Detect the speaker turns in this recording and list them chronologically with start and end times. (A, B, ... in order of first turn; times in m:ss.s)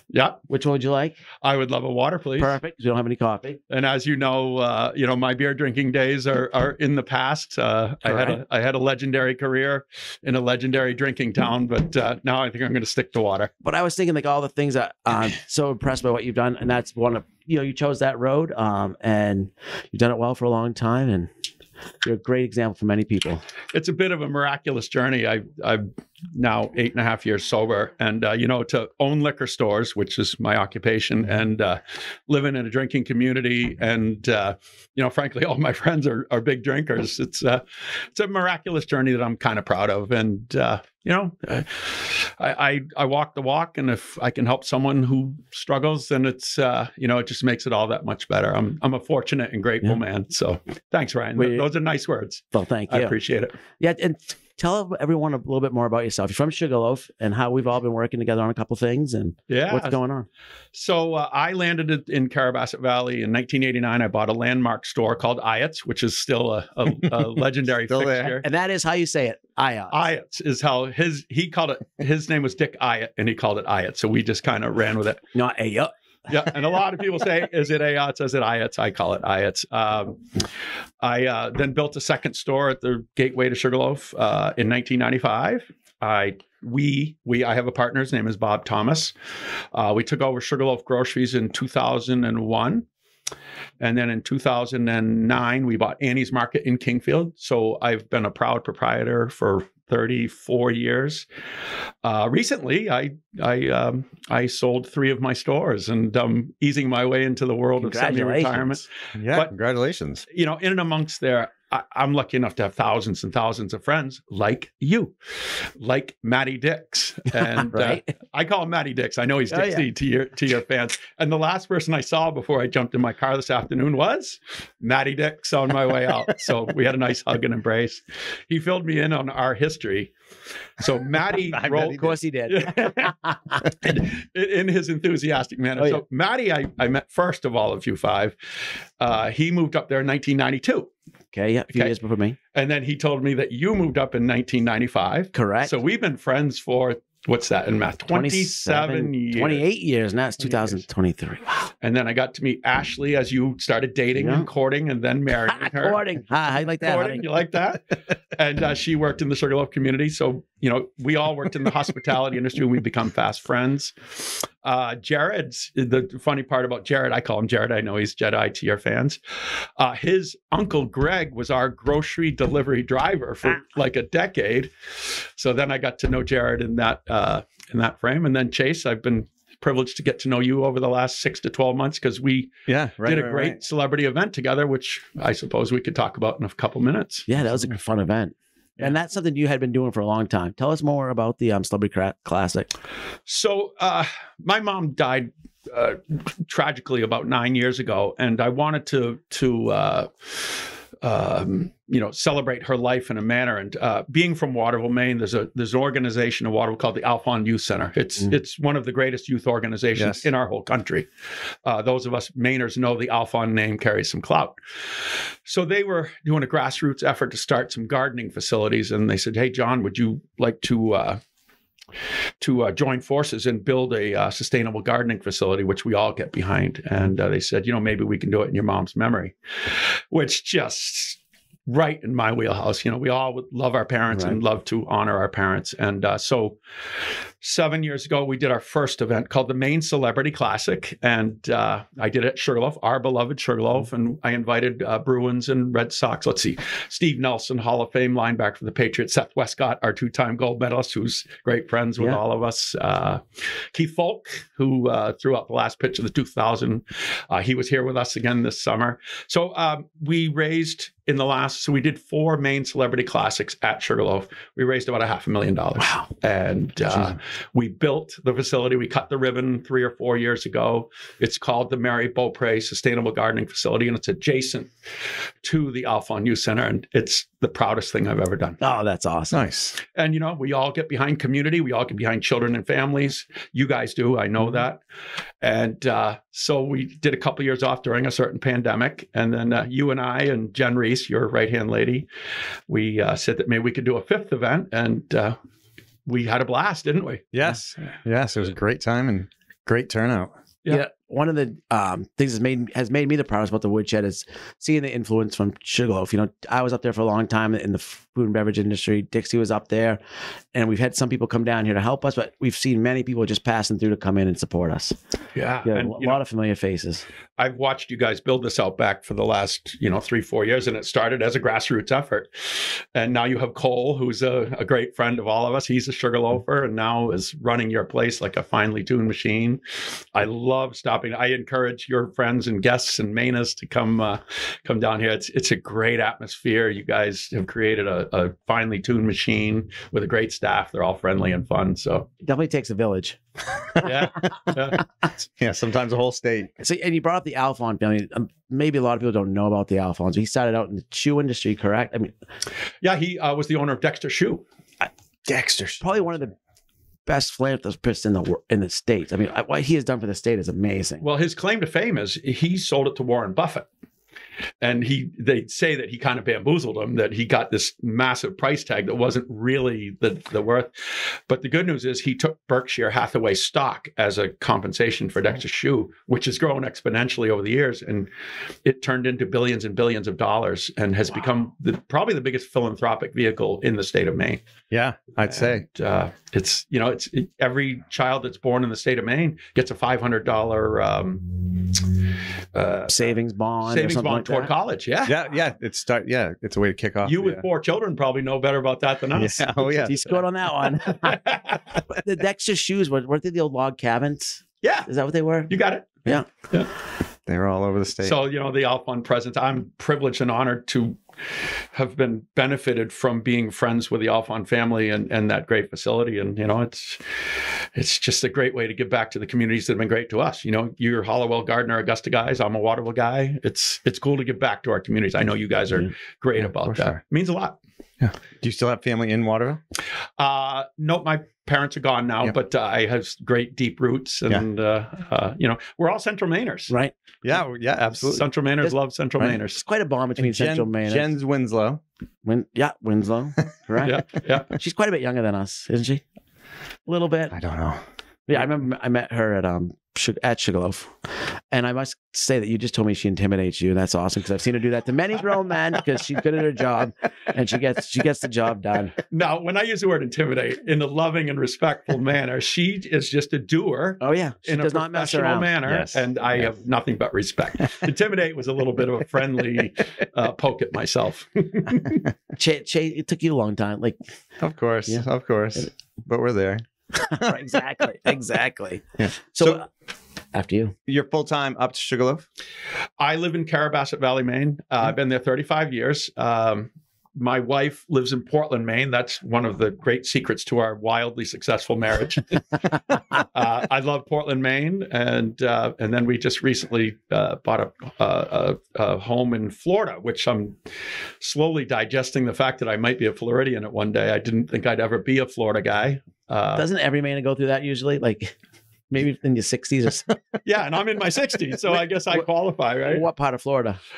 0:00.1-0:00.4 A
0:00.5-0:01.2 B
0:01.4-0:02.6 A
0:02.4-0:03.6 B
0:03.7-0:13.5 A
0:08.0-0:08.4 B
0:13.6-0:21.3 B
0:22.0-0:23.4 B
0:23.7-0:53.6 A
0:51.4-0:51.7 B
0:52.5-0:53.2 B
0:53.8-1:00.3 B
0:59.5-1:00.0 A
1:00.7-1:08.4 A
1:07.9-1:08.4 C
1:08.4-1:10.0 B
1:09.9-1:15.2 A
1:15.4-1:15.9 B
1:16.3-1:20.2 A
1:21.0-1:29.2 A
1:29.7-1:32.9 A
1:33.8-1:41.3 A
1:42.0-1:49.5 A
1:47.8-1:48.8 B
1:49.2-1:50.2 C
1:50.3-2:10.1 A
1:57.7-1:58.1 B
1:59.5-1:59.9 B
2:10.8-2:13.1 A
2:11.3-2:12.2 C
2:12.0-2:13.6 B
2:13.8-2:20.9 A
2:15.8-2:16.0 B
2:21.3-2:22.4 B
2:22.5-2:29.6 A
2:25.3-2:25.8 B
2:28.1-2:31.7 B
2:30.4-2:30.8 A
2:31.8-2:36.0 A
2:34.2-2:34.5 B
2:35.5-2:37.3 B
2:36.8-3:07.3 A
3:02.7-3:03.6 C
3:07.3-3:12.7 B
3:13.3-3:31.1 A
3:31.6-3:41.2 A
3:42.4-4:34.7 A
3:54.1-3:54.4 B
4:35.4-4:38.6 A
4:38.6-4:39.4 B
4:39.3-4:39.8 C
4:39.8-4:44.8 A
4:45.4-4:52.1 A
4:52.7-4:55.4 A
4:56.1-4:57.2 A
4:57.3-5:00.3 C
5:00.7-5:10.0 B
5:10.5-5:15.0 B
5:15.4-5:16.2 A
5:15.6-5:17.0 B
5:17.4-5:42.1 A
5:42.2-5:43.2 B
5:43.8-5:44.8 A
5:45.3-5:46.5 C
5:46.6-5:52.1 B
5:52.8-5:54.5 A
5:55.3-5:56.2 C
5:55.8-5:56.3 B
5:57.1-6:01.0 B
6:01.0-6:03.7 A
6:04.6-6:18.1 A
6:18.6-6:24.4 A
6:24.7-6:25.6 C
6:25.3-6:32.0 A
6:32.5-6:35.2 A
6:32.9-6:34.5 B
6:35.0-6:37.4 C
6:37.0-6:41.9 A
6:39.1-6:40.0 C
6:39.9-6:41.2 B
6:41.9-6:45.5 B
6:44.6-6:44.9 A
6:45.5-6:46.7 A
6:47.3-6:48.2 C
6:48.0-7:07.6 A
7:06.5-7:07.0 C
7:08.0-7:09.6 C
7:10.2-7:16.7 A
7:16.7-7:16.9 B
7:17.2-7:18.3 C
7:18.0-7:19.6 A
7:19.5-7:21.1 B
7:20.2-7:21.8 C
7:22.2-7:24.0 B
7:23.8-7:24.5 A
7:24.6-7:26.0 B
7:26.9-7:27.3 B
7:27.3-7:27.8 C
7:28.3-7:30.9 B
7:31.5-7:39.0 B
7:39.1-7:52.0 A
7:44.0-7:45.6 B
7:45.7-7:46.0 C
7:52.4-7:54.0 B
7:54.4-7:57.3 C
7:57.0-7:59.7 B
7:59.0-7:59.6 C
8:00.3-8:00.8 B
8:00.9-8:02.3 C
8:03.0-8:20.7 A
8:21.2-8:26.6 A
8:26.6-8:28.4 B
8:28.9-8:30.1 B
8:30.4-8:33.0 A
8:32.8-8:33.8 B